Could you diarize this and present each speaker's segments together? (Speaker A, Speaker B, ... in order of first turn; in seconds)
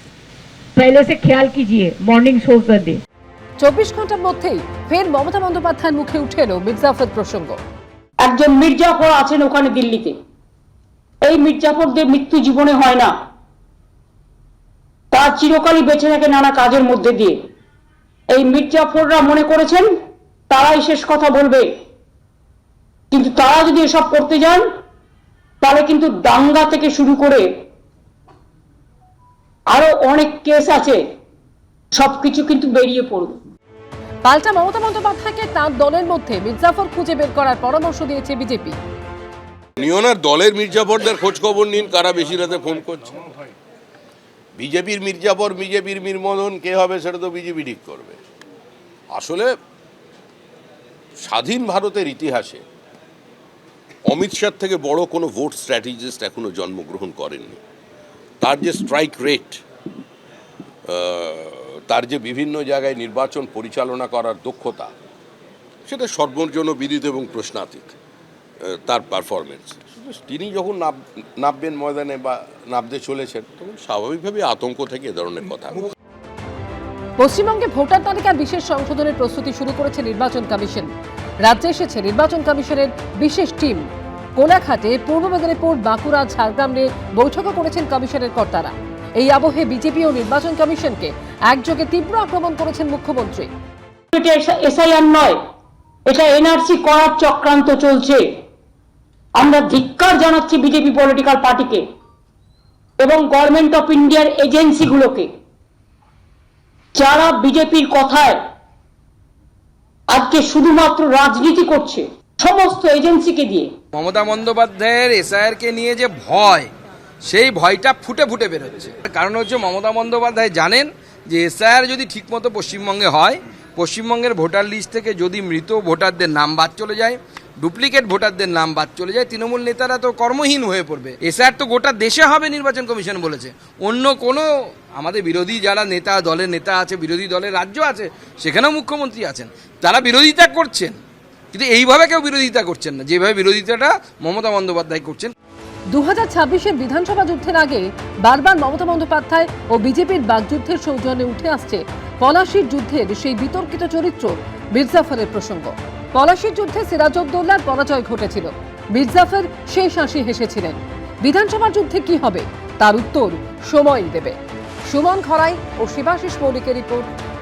Speaker A: 0.8-3.0
Speaker B: 3.6-7.6, 34.2-38.8, 77.2-80.9, 81.4-83.8, 84.4-93.5, 145.9-164.4, 164.9-167.1
Speaker C: 8.2-10.1, 11.2-13.1, 15.1-17.4, 18.3-19.9, 20.5-21.6, 23.1-24.6, 25.6-27.5, 29.7-31.0, 31.9-33.4, 94.1-95.4, 96.1-98.2, 99.4-101.8, 103.0-105.3, 107.0-108.4, 110.1-113.7
Speaker D: 39.8-43.3, 44.6-48.2, 49.1-49.5, 51.2-52.6, 54.1-57.6, 58.4-59.6, 60.9-64.9, 65.9-68.0, 68.7-75.9
Speaker E: 113.9-116.7, 117.2-134.4, 135.0-141.0, 141.5-145.3